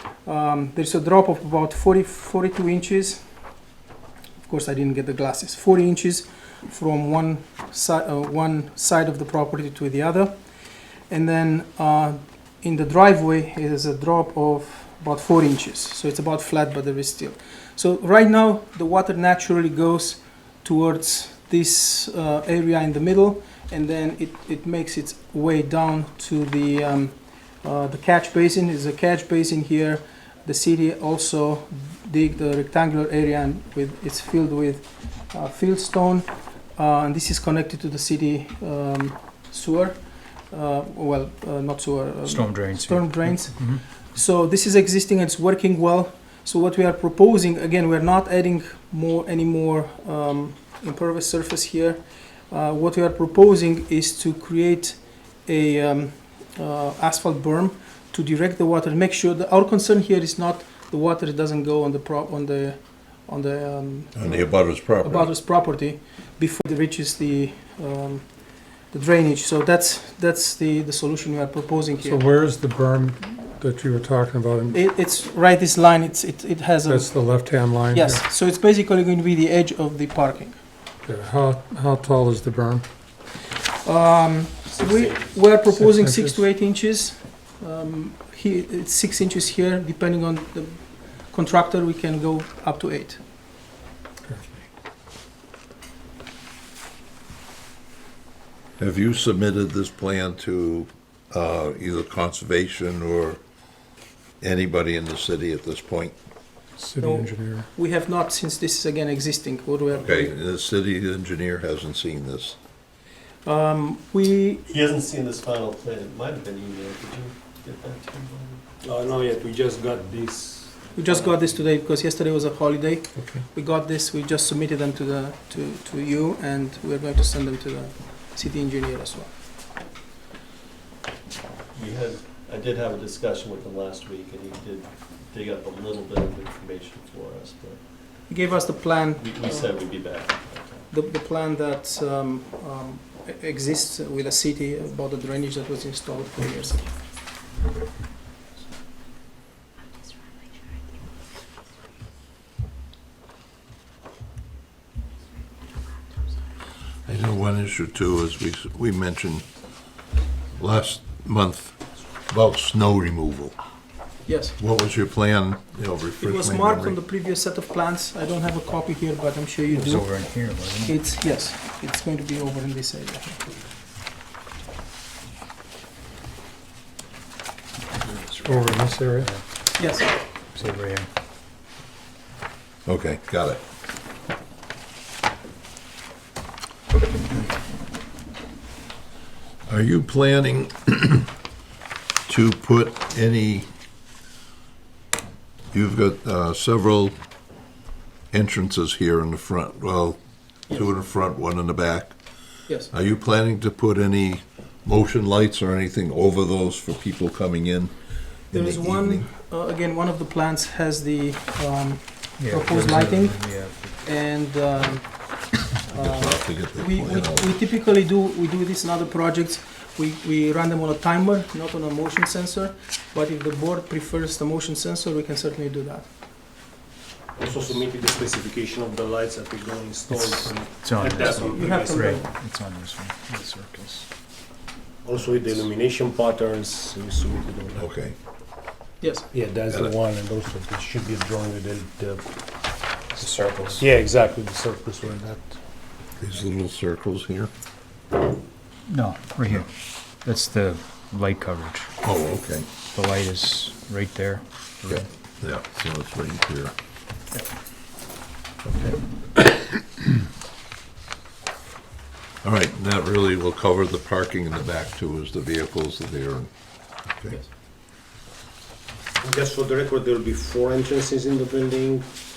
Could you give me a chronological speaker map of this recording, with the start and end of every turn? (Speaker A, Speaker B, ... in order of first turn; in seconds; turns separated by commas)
Speaker A: 0.2-3.2, Speaker A: 4.4-10.4, Speaker A: 11.1-72.2, Speaker B: 42.2-43.8, Speaker C: 64.1-65.3, Speaker D: 72.0-74.8, Speaker A: 74.7-77.1, Speaker D: 76.8-78.2, Speaker A: 77.8-80.6, Speaker D: 81.0-82.8, Speaker A: 83.5-93.2, Speaker E: 84.7-85.5, Speaker D: 85.7-86.4, Speaker D: 94.2-94.6, Speaker C: 98.8-103.4, Speaker C: 104.4-106.2, Speaker D: 106.8-107.7, Speaker A: 107.0-110.3, Speaker C: 109.9-112.6, Speaker A: 113.4-114.6, Speaker F: 114.7-118.6, Speaker E: 118.8-121.6, Speaker A: 120.9-129.3, Speaker D: 123.1-123.4, Speaker F: 131.7-138.6, Speaker A: 138.3-140.4, Speaker F: 139.1-140.9, Speaker A: 140.9-147.0, Speaker C: 157.0-159.6, Speaker C: 160.6-163.6, Speaker A: 164.2-164.6, Speaker C: 164.6-167.0, Speaker A: 166.2-173.5, Speaker B: 169.7-171.0, Speaker B: 178.0-179.4, Speaker D: 178.4-179.3, Speaker A: 179.7-180.1, Speaker B: 180.5-181.1, Speaker C: 182.8-183.6, Speaker C: 189.7-191.3, Speaker C: 192.3-193.7, Speaker C: 195.7-197.2, Speaker C: 198.3-202.2, Speaker C: 202.8-209.3, Speaker A: 208.5-226.1, Speaker B: 212.4-214.1, Speaker C: 215.9-217.6, Speaker E: 227.3-232.1, Speaker B: 230.1-234.1, Speaker A: 231.3-232.3, Speaker E: 235.0-237.9, Speaker C: 237.8-238.2, Speaker A: 239.0-239.3, Speaker E: 239.3-242.6, Speaker B: 243.1-243.8, Speaker E: 243.2-245.6, Speaker C: 246.2-247.5, Speaker B: 248.9-251.9, Speaker C: 252.0-252.7, Speaker B: 252.9-255.1, Speaker C: 254.8-256.7, Speaker C: 258.6-259.7, Speaker C: 262.4-266.5, Speaker C: 267.1-267.4, Speaker E: 269.2-272.1